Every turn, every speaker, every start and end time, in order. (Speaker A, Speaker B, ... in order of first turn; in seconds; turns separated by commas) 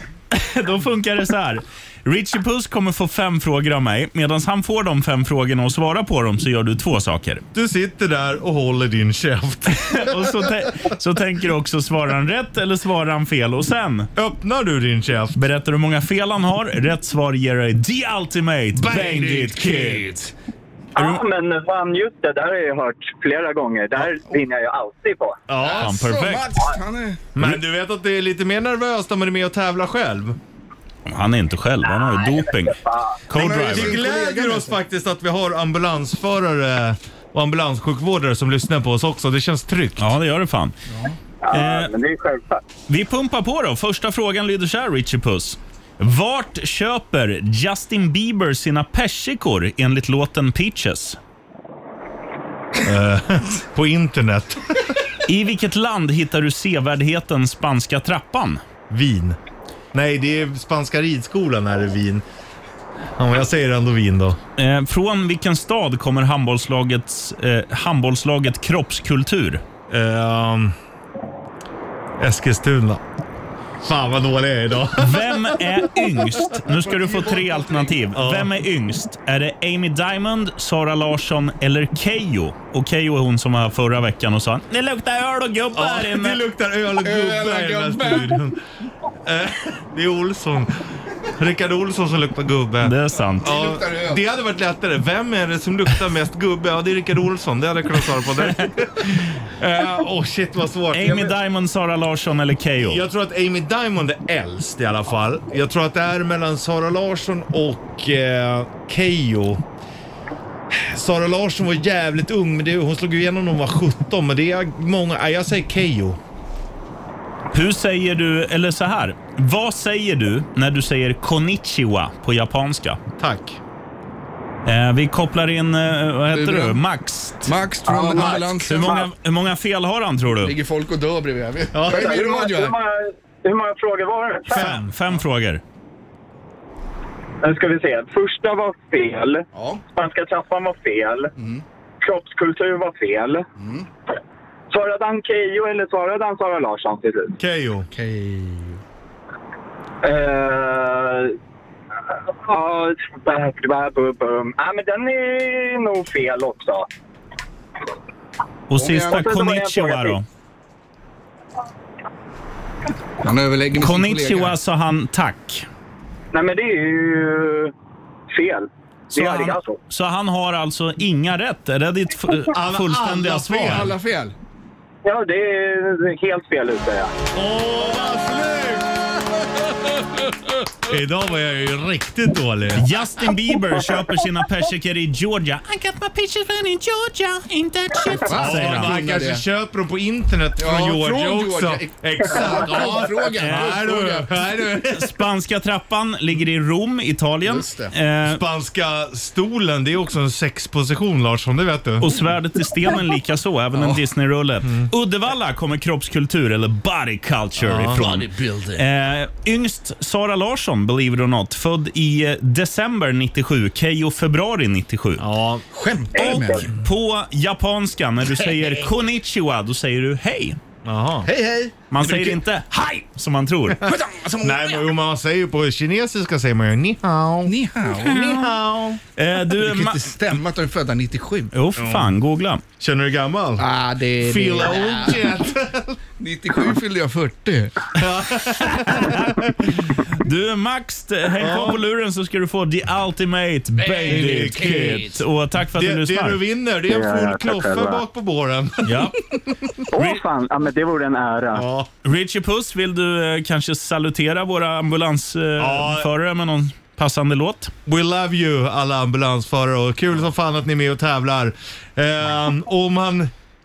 Speaker A: 0.3-7.4, Speaker B: 7.5-10.2, Speaker A: 9.7-14.1, Speaker B: 14.2-15.4, Speaker A: 15.3-20.3, Speaker B: 18.7-20.3, Speaker C: 20.9-25.4, Speaker A: 20.9-21.2, Speaker B: 25.5-26.0, Speaker A: 25.6-26.6, Speaker D: 25.6-27.2, Speaker B: 27.4-30.4, Speaker A: 31.1-34.0, Speaker C: 32.0-33.2, Speaker D: 33.3-34.8, Speaker B: 33.7-40.1, Speaker A: 40.0-40.8, Speaker C: 41.4-42.6, Speaker A: 41.5-41.9, Speaker A: 42.9-51.2, Speaker B: 52.8-54.8, Speaker A: 55.3-58.6, Speaker B: 58.9-59.4, Speaker B: 59.9-62.2, Speaker B: 63.2-64.4, Speaker A: 64.6-69.6, Speaker B: 69.9-70.7, Speaker B: 72.2-73.0, Speaker B: 73.8-75.6, Speaker A: 75.0-86.4, Speaker B: 76.5-78.5, Speaker B: 85.7-88.6, Speaker D: 87.0-88.4, Speaker B: 89.2-101.3, Speaker A: 92.8-93.5, Speaker D: 93.4-94.2, Speaker A: 100.9-103.0, Speaker B: 102.8-109.6, Speaker B: 110.7-116.2, Speaker A: 117.5-123.0, Speaker B: 123.2-123.6, Speaker A: 124.6-127.5, Speaker D: 126.3-126.8, Speaker D: 127.4-128.9, Speaker C: 127.9-129.1, Speaker A: 128.1-130.5, Speaker D: 130.4-132.8, Speaker B: 131.7-132.2, Speaker C: 131.9-134.6, Speaker B: 134.5-134.9, Speaker A: 134.5-135.6, Speaker C: 137.4-141.3, Speaker D: 139.5-139.8, Speaker D: 141.4-141.6, Speaker C: 142.0-143.4, Speaker D: 143.6-143.8, Speaker C: 144.7-147.3, Speaker B: 147.4-147.9, Speaker D: 147.9-148.8, Speaker C: 150.0-151.4, Speaker C: 152.4-156.9, Speaker A: 158.7-160.2, Speaker D: 158.7-159.2, Speaker C: 159.0-160.2, Speaker D: 163.2-164.6, Speaker A: 163.8-165.7, Speaker C: 166.3-167.7, Speaker C: 168.3-169.8, Speaker A: 169.1-173.9, Speaker B: 172.5-173.9, Speaker D: 173.7-174.3, Speaker C: 175.0-177.1, Speaker B: 177.3-178.9, Speaker B: 180.8-182.9, Speaker A: 182.8-189.1, Speaker D: 188.2-189.4, Speaker B: 188.3-195.1, Speaker D: 190.6-194.3, Speaker A: 193.4-193.8, Speaker A: 194.9-198.4, Speaker D: 197.4-197.9, Speaker B: 198.3-202.1, Speaker A: 202.0-215.2, Speaker B: 207.6-208.1, Speaker D: 208.0-208.8, Speaker B: 215.2-215.7, Speaker D: 215.7-216.7, Speaker C: 216.1-216.6, Speaker A: 216.1-220.6, Speaker B: 220.8-221.3, Speaker D: 221.2-221.7, Speaker A: 221.9-223.8, Speaker B: 222.0-222.3, Speaker D: 223.8-224.9, Speaker B: 224.4-229.0, Speaker D: 227.4-228.4, Speaker A: 228.1-228.5, Speaker A: 229.2-230.2, Speaker D: 229.5-231.5, Speaker A: 231.5-232.6, Speaker B: 231.8-232.1, Speaker B: 232.8-233.7, Speaker D: 233.6-235.2, Speaker B: 234.2-236.0, Speaker D: 236.2-237.9, Speaker B: 237.9-239.5, Speaker A: 240.1-246.4, Speaker B: 241.4-241.8, Speaker B: 244.0-245.2, Speaker B: 245.7-249.7, Speaker C: 246.8-248.0, Speaker A: 248.8-249.2, Speaker C: 249.9-251.7, Speaker B: 251.5-251.9, Speaker A: 252.0-257.7, Speaker B: 255.6-256.1, Speaker B: 257.9-263.3